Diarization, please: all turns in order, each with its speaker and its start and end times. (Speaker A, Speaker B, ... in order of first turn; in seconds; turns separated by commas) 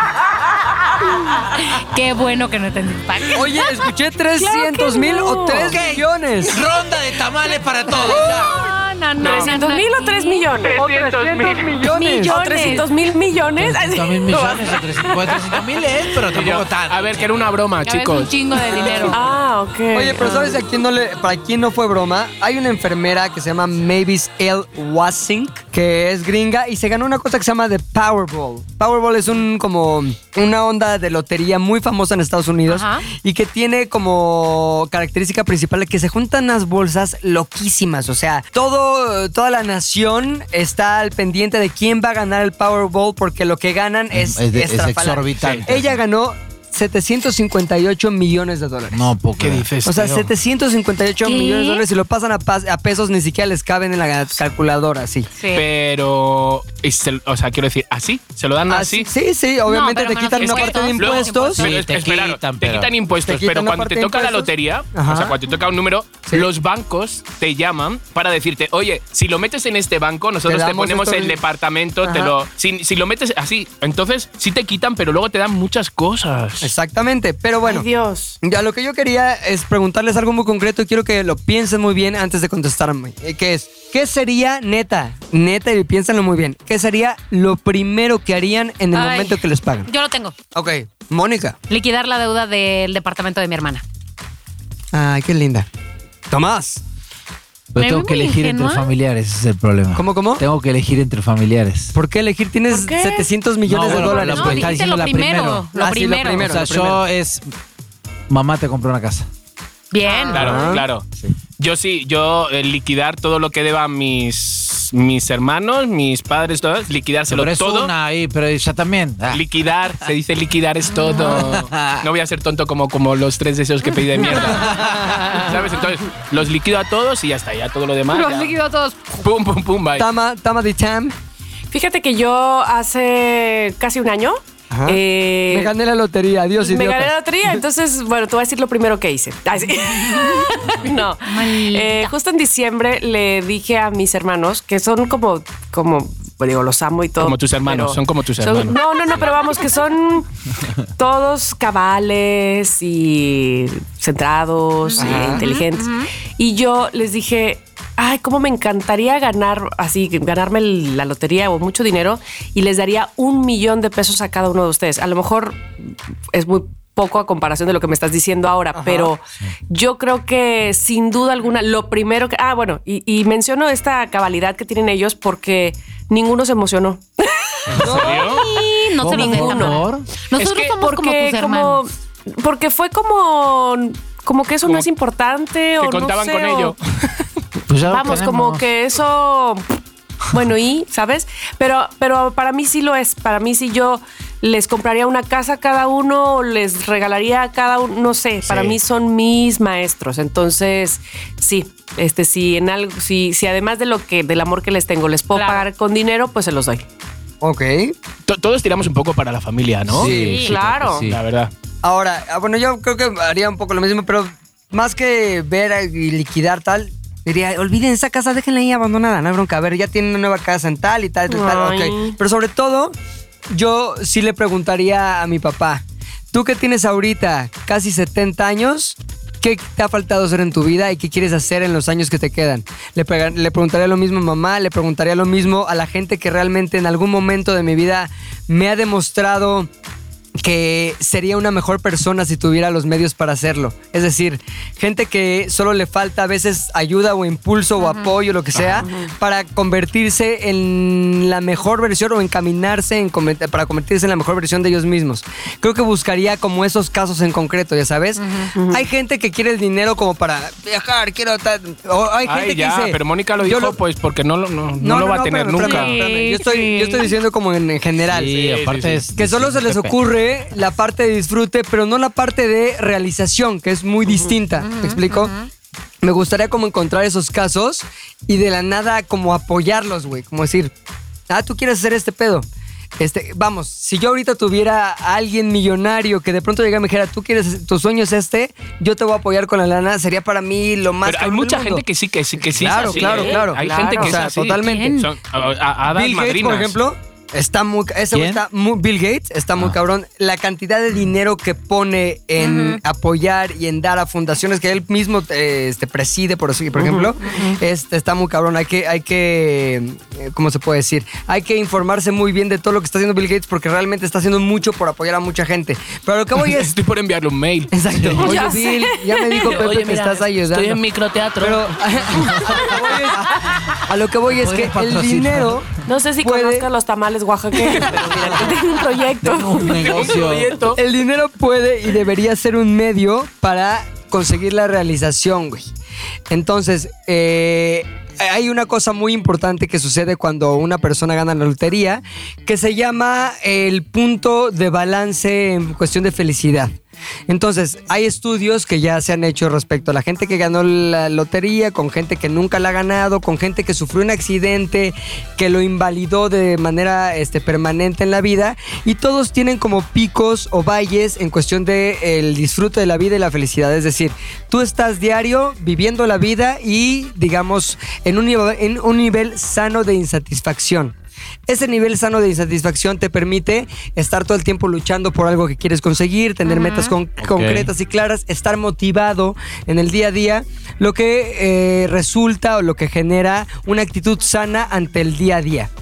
Speaker A: 1.4-3.8, Speaker B: 3.3-6.6, Speaker C: 4.3-5.8, Speaker D: 5.7-8.6, Speaker A: 8.0-10.5, Speaker C: 9.2-10.8, Speaker E: 9.2-9.6, Speaker E: 10.6-11.8, Speaker B: 10.8-12.4, Speaker C: 11.8-15.6, Speaker A: 11.8-12.8, Speaker D: 13.6-17.4, Speaker E: 16.3-19.1, Speaker A: 17.8-19.2, Speaker B: 18.8-19.1, Speaker C: 19.0-20.6, Speaker B: 19.9-49.1, Speaker A: 32.6-33.0, Speaker D: 44.1-46.0, Speaker E: 45.4-45.6, Speaker D: 48.9-49.6, Speaker E: 49.4-50.3, Speaker B: 49.8-55.3, Speaker A: 51.2-51.8, Speaker A: 55.4-55.6, Speaker E: 55.5-59.1, Speaker B: 58.7-61.6, Speaker A: 59.6-61.7, Speaker E: 60.4-76.7, Speaker D: 61.6-62.9, Speaker B: 63.2-65.3, Speaker B: 70.4-71.4, Speaker B: 72.0-72.3, Speaker B: 76.6-77.9, Speaker C: 77.6-78.4, Speaker B: 78.4-89.9, Speaker A: 88.9-90.3, Speaker B: 90.5-91.6, Speaker A: 91.7-93.8, Speaker B: 94.9-95.7, Speaker B: 96.3-96.8, Speaker D: 97.7-102.0, Speaker A: 97.8-98.8, Speaker B: 99.9-100.4, Speaker B: 101.9-104.9, Speaker C: 102.7-103.2, Speaker D: 103.6-105.7, Speaker A: 103.9-106.5, Speaker B: 105.7-107.0, Speaker D: 106.3-107.5, Speaker D: 108.3-109.3, Speaker A: 109.9-110.7, Speaker C: 110.0-110.7, Speaker E: 110.3-111.0, Speaker B: 110.3-111.3, Speaker E: 111.6-117.9, Speaker D: 117.3-119.4, Speaker E: 119.3-128.6, Speaker A: 120.9-121.4, Speaker D: 121.2-122.0, Speaker D: 124.4-125.3, Speaker A: 128.1-129.2, Speaker E: 129.2-130.1, Speaker B: 130.0-131.1, Speaker C: 131.7-135.7, Speaker B: 134.7-137.1, Speaker C: 136.6-150.3, Speaker A: 140.3-142.1, Speaker E: 147.2-148.8, Speaker C: 150.9-179.8, Speaker A: 154.9-156.1, Speaker B: 155.0-155.4, Speaker B: 168.7-169.1, Speaker E: 177.8-178.4, Speaker B: 177.8-178.3, Speaker A: 178.2-181.8, Speaker D: 179.0-180.1, Speaker C: 180.3-186.8, Speaker E: 185.8-186.8, Speaker D: 187.7-188.6, Speaker C: 187.9-189.8, Speaker C: 190.3-206.8, Speaker A: 205.3-205.6, Speaker B: 207.4-207.9, Speaker E: 208.3-210.1, Speaker D: 209.9-211.2, Speaker B: 210.0-210.4, Speaker A: 210.1-210.5, Speaker C: 210.3-211.1, Speaker E: 211.1-211.5, Speaker B: 211.8-222.9, Speaker C: 221.3-222.2, Speaker B: 223.5-239.7, Speaker B: 240.4-263.8, Speaker A: 247.8-248.1, Speaker E: 248.5-248.8, Speaker C: 248.8-249.1, Speaker A: 258.2-258.5, Speaker C: 258.5-258.9, Speaker E: 262.2-266.0, Speaker B: 264.8-268.4, Speaker A: 265.6-267.1, Speaker C: 265.7-266.3, Speaker D: 268.1-270.0, Speaker E: 268.3-269.0, Speaker B: 269.1-275.3, Speaker C: 274.1-274.3, Speaker A: 274.6-275.5, Speaker B: 276.0-280.7, Speaker B: 281.3-282.4, Speaker B: 283.0-291.8, Speaker E: 291.0-296.8, Speaker B: 292.4-295.0, Speaker C: 292.7-294.2, Speaker A: 294.6-295.1, Speaker B: 295.9-316.7, Speaker D: 298.1-298.4, Speaker A: 302.4-302.8, Speaker C: 306.8-307.6, Speaker E: 316.4-318.4, Speaker B: 317.7-320.8, Speaker C: 318.2-319.6, Speaker E: 319.5-321.6, Speaker B: 321.4-325.7, Speaker D: 322.1-322.5, Speaker D: 324.3-325.6, Speaker C: 325.9-330.0, Speaker B: 326.2-326.7, Speaker B: 327.6-328.4, Speaker D: 327.8-328.5, Speaker D: 329.2-330.6, Speaker E: 329.7-330.8, Speaker B: 330.7-335.7, Speaker B: 336.3-346.7, Speaker B: 347.3-370.9, Speaker B: 371.5-385.7, Speaker A: 376.4-376.9, Speaker D: 377.2-377.7